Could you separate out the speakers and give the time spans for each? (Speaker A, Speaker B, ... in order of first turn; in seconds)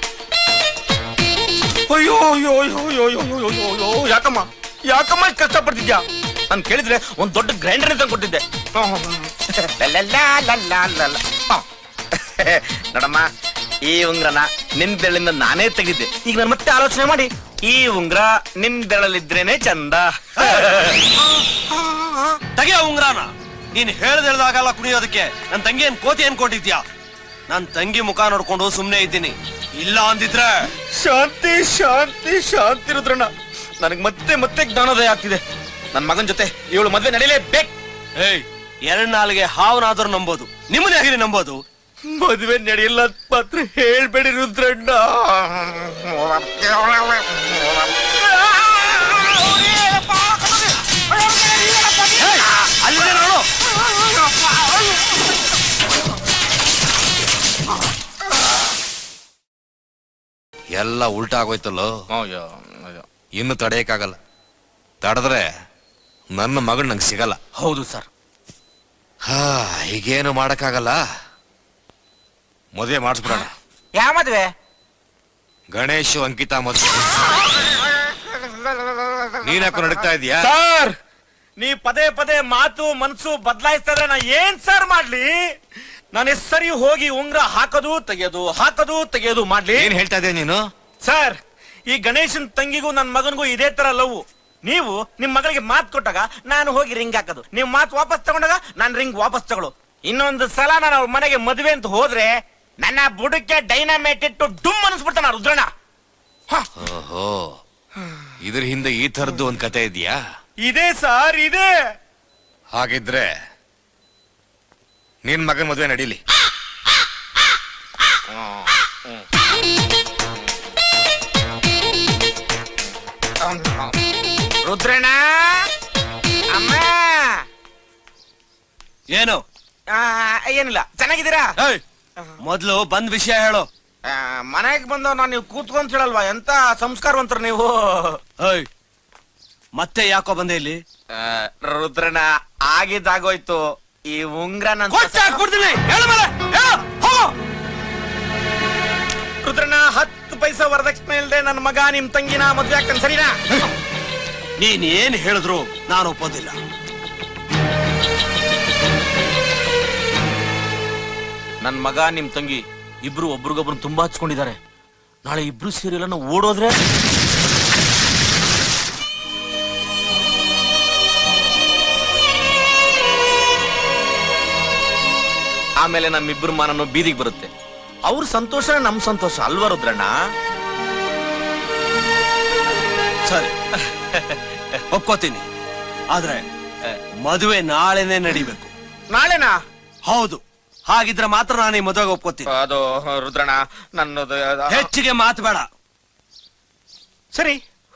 Speaker A: 1.9-11.6, 12.1-13.2, 13.8-22.4, 30.8-35.4, 35.9-37.7, 42.1-52.3, 62.1-63.0, 67.5-68.1, 73.9-74.5, 78.8-79.3, 80.4-80.9, 81.6-85.3, 86.1-89.9, 91.0-102.3, 102.8-105.7, 110.6-111.7, 118.3-119.2, 123.4-124.0, 124.6-125.7, 126.5-127.4, 129.9-131.5, 134.1-138.2, 141.1-145.4, 149.4-153.4, 161.6-164.6, 165.2-166.7, 175.8-177.5, 178.0-180.1, 183.8-184.8, 189.1-189.6, 192.5-194.9, 197.3-197.6
Speaker B: 20.4-20.6, 22.5-26.8, 27.5-30.7, 38.2-41.6, 52.2-53.5, 129.1-129.4, 132.4-133.7, 138.4-138.7, 139.7-140.8, 144.9-147.3, 154.6-156.6, 183.2-183.5, 184.9-185.4, 186.1-186.4, 187.2-188.7, 190.1-192.5, 194.7-195.7
Speaker C: 60.7-61.9, 63.3-64.2, 65.0-65.5, 66.3-67.4, 69.3-71.0, 72.7-73.5, 75.7-77.2, 79.4-80.5, 89.7-90.6, 106.8-107.6, 108.4-110.2, 112.7-113.3, 115.2-116.2